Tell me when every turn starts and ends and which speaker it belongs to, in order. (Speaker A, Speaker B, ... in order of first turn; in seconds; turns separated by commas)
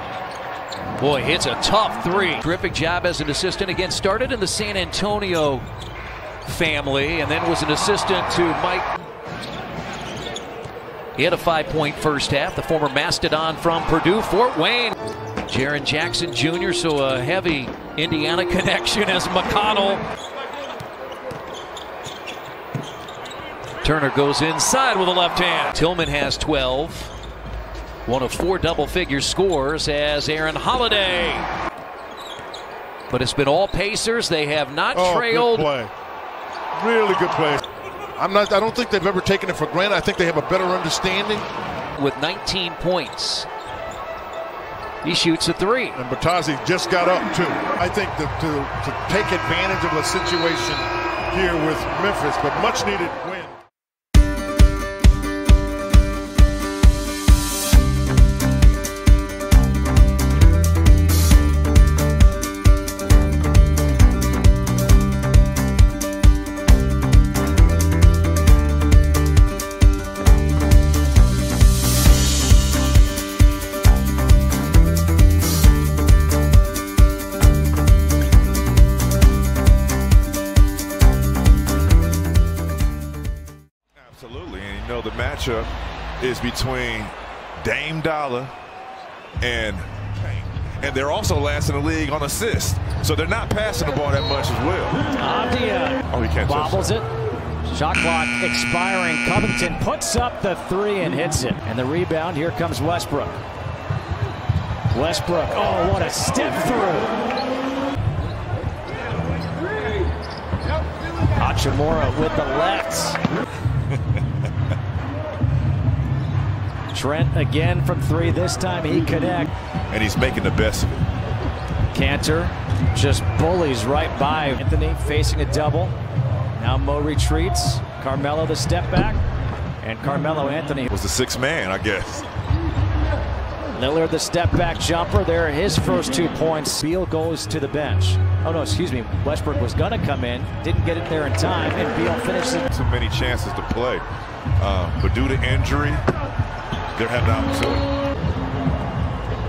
Speaker A: 1.0-5.7, Speaker A: 6.4-8.9, Speaker A: 11.2-14.9, Speaker A: 15.5-20.0, Speaker A: 23.8-27.1, Speaker A: 28.1-31.5, Speaker A: 33.1-35.7, Speaker B: 34.9-35.9, Speaker B: 36.8-37.6, Speaker B: 38.2-41.5, Speaker A: 42.0-43.5, Speaker A: 45.0-46.0, Speaker B: 46.0-53.6, Speaker C: 84.0-88.5, Speaker C: 89.4-95.0, Speaker D: 95.2-97.0, Speaker C: 96.1-96.9, Speaker D: 97.7-103.4, Speaker D: 104.9-107.1, Speaker D: 111.4-113.2, Speaker D: 116.9-119.5, Speaker C: 119.9-120.9, Speaker D: 121.9-125.9, Speaker D: 126.6-129.2, Speaker D: 129.8-130.9, Speaker C: 130.9-132.2, Speaker D: 133.7-142.7, Speaker C: 142.7-144.0, Speaker C: 144.6-146.0, Speaker C: 146.9-147.8